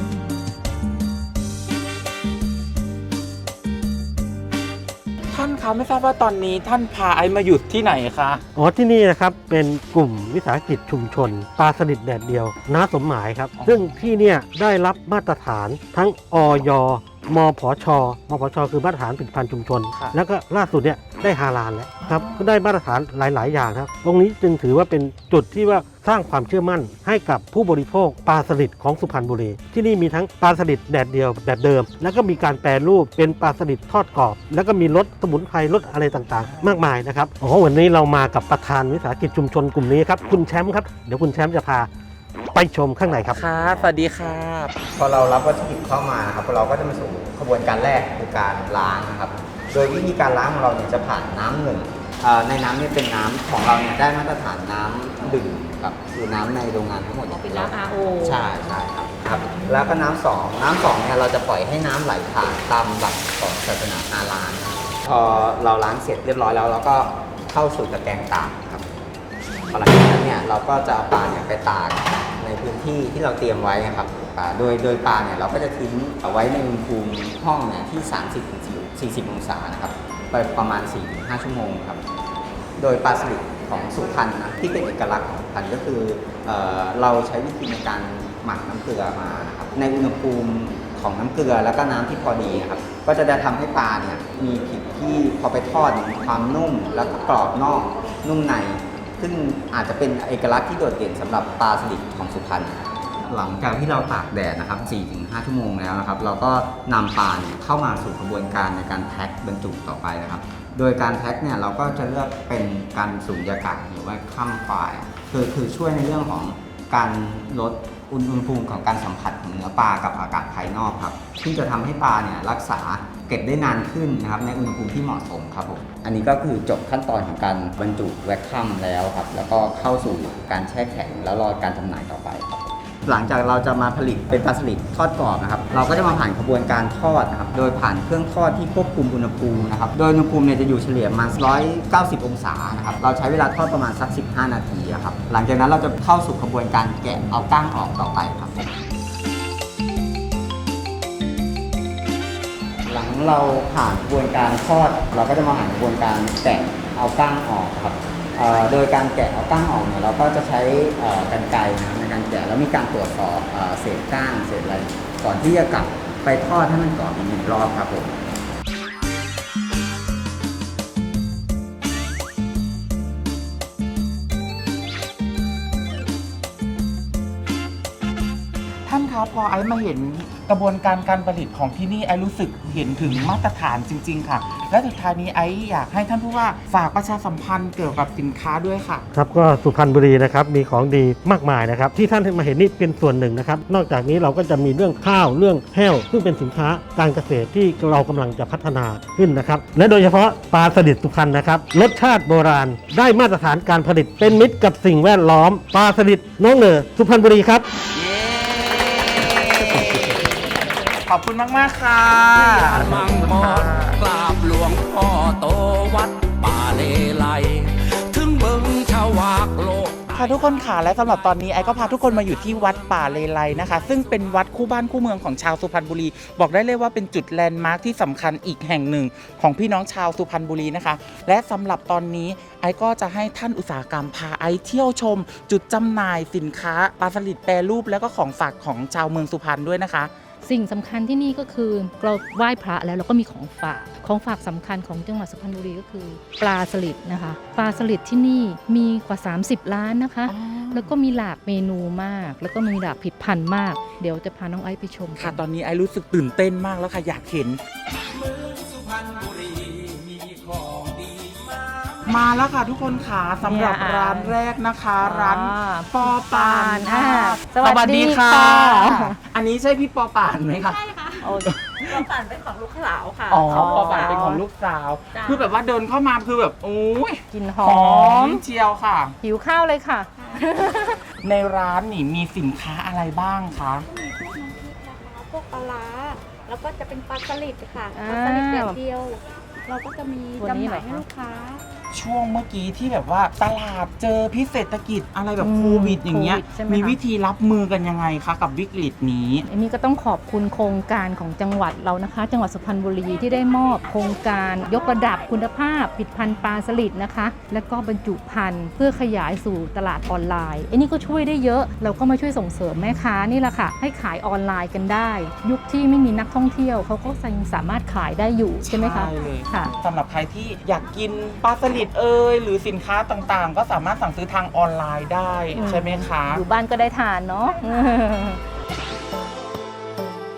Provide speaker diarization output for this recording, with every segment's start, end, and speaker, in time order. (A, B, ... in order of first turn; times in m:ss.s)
0:05.3-0:08.4 A
0:08.5-0:41.9 B
0:13.6-0:13.9 A
0:19.9-0:20.2 A
0:22.0-0:22.4 A
0:36.4-0:36.8 A
0:42.5-0:43.4 B
0:43.3-0:44.7 A
0:44.9-1:08.8 C
0:57.3-1:00.0 D
1:09.7-1:22.0 C
1:22.8-2:28.7 C
2:32.8-2:48.3 C
2:58.9-3:09.1 A
3:09.1-3:27.7 B
3:27.9-3:30.2 E
3:31.0-3:34.0 A
3:32.3-3:43.9 E
3:40.1-4:00.1 A
4:00.4-4:15.4 D
4:10.3-4:10.9 A
4:15.2-4:17.6 A
4:18.1-4:22.2 E
4:22.0-4:30.8 A
4:23.4-4:24.4 D
4:25.0-4:29.2 D
4:30.6-4:31.2 F
4:31.2-4:31.5 D
4:31.4-4:32.0 A
4:31.7-4:34.3 F
4:33.3-4:39.2 A
4:33.5-4:34.4 D
4:35.1-4:35.4 F
4:37.3-4:38.4 D
4:39.2-4:41.0 D
4:40.2-4:40.4 F
4:41.2-4:43.8 A
4:43.8-4:51.6 F
4:47.9-4:48.8 D
4:50.4-4:51.0 D
4:51.9-4:59.4 A
4:55.4-4:57.0 D
4:59.5-5:19.7 D
5:18.6-5:26.4 A
5:25.5-5:28.4 D